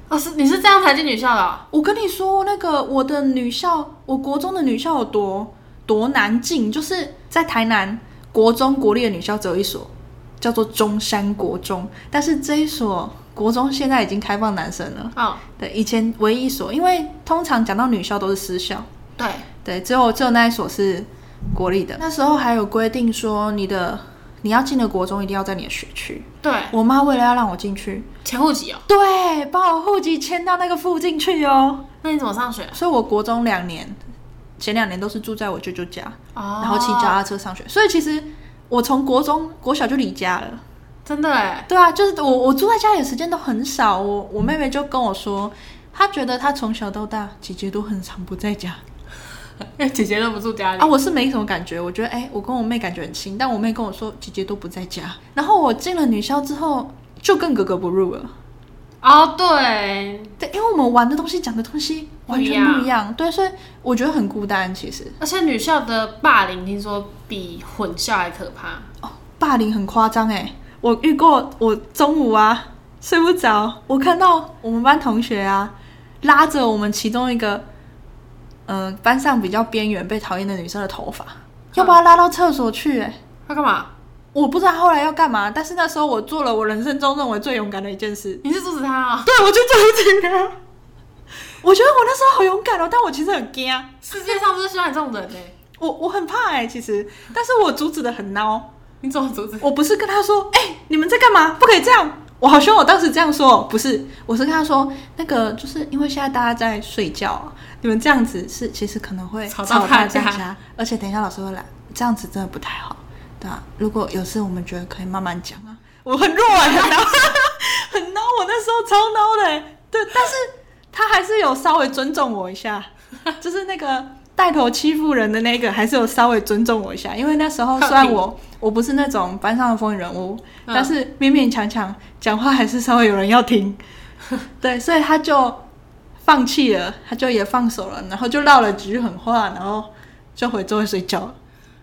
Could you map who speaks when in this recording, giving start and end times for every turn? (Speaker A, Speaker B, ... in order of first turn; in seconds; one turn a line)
Speaker A: 0.1-1.6
Speaker B: 1.7-18.9
Speaker A: 15.2-15.4
Speaker A: 19.2-19.5
Speaker B: 19.6-28.1
Speaker A: 26.4-26.7
Speaker A: 28.2-28.8
Speaker B: 28.9-31.9
Speaker A: 32.0-32.8
Speaker B: 32.7-34.0
Speaker B: 34.6-40.6
Speaker A: 36.3-37.2
Speaker A: 41.0-41.7
Speaker B: 41.7-48.8
Speaker A: 49.6-50.9
Speaker B: 50.8-58.3
Speaker A: 59.0-60.3
Speaker B: 60.4-65.2
Speaker A: 62.3-62.9
Speaker A: 65.2-68.9
Speaker B: 69.0-77.7
Speaker B: 78.7-83.2
Speaker A: 83.5-83.9
Speaker B: 84.3-88.4
Speaker A: 88.4-89.3
Speaker B: 89.2-90.6
Speaker B: 91.6-94.0
Speaker A: 94.0-95.5
Speaker B: 95.8-98.7
Speaker A: 99.0-99.7
Speaker B: 99.6-133.8
Speaker A: 109.5-110.4
Speaker A: 127.8-128.2
Speaker A: 130.7-130.9
Speaker B: 134.6-135.6
Speaker B: 136.2-141.3